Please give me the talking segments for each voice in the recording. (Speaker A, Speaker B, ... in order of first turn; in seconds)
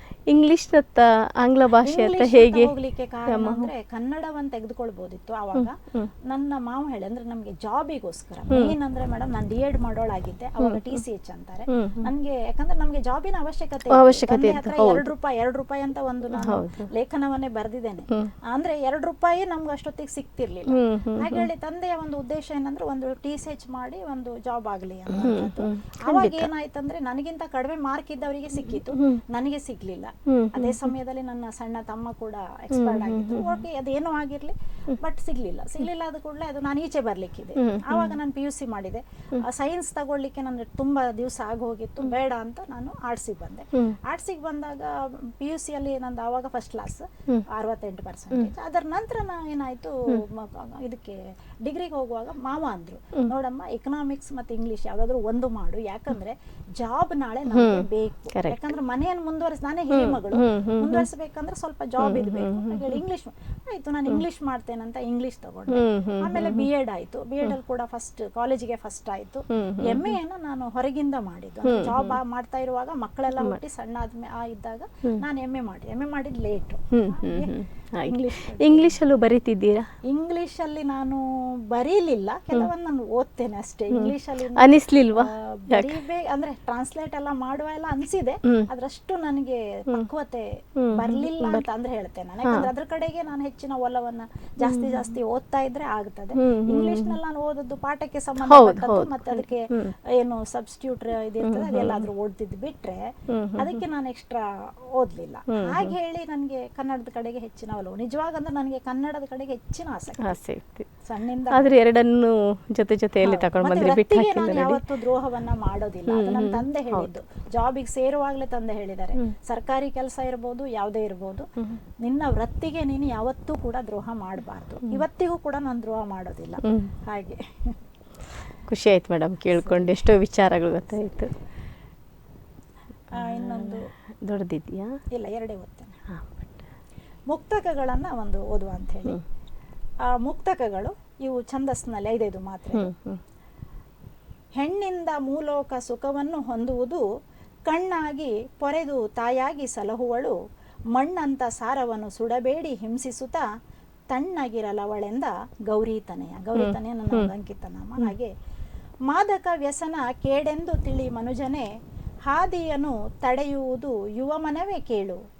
Speaker A: 0.3-2.7, 3.3-3.7, 5.5-6.1, 8.5-8.7, 10.6-11.0, 11.7-12.1, 13.9-15.1, 16.4-16.9, 20.7-21.5, 25.1-26.5, 28.6-29.2, 30.2-30.9, 32.7-33.6, 37.6-38.1, 57.5-58.6, 59.9-61.1, 62.0-63.0, 65.7-66.7, 69.5-70.2, 71.6-72.2, 76.9-79.9, 83.9-86.0, 90.8-91.7, 92.4-92.7, 94.6-95.1, 96.4-97.2, 98.4-99.9, 101.4-102.1, 103.3-103.8, 105.5-105.9, 110.2-110.9, 111.5-114.8, 116.1-117.1, 126.6-126.9, 128.7-131.3, 133.1-135.0, 136.1-136.7, 142.7-143.2, 156.6-157.3
Speaker B: 1.8-79.0, 80.0-110.4, 111.0-111.7, 113.2-121.5, 122.0-127.8, 129.6-129.9, 133.1-133.9, 135.1-136.0, 137.3-139.2, 140.0-142.9, 144.6-147.1, 147.7-150.4, 150.9-153.5, 154.1-158.3, 159.1-161.7, 162.3-165.2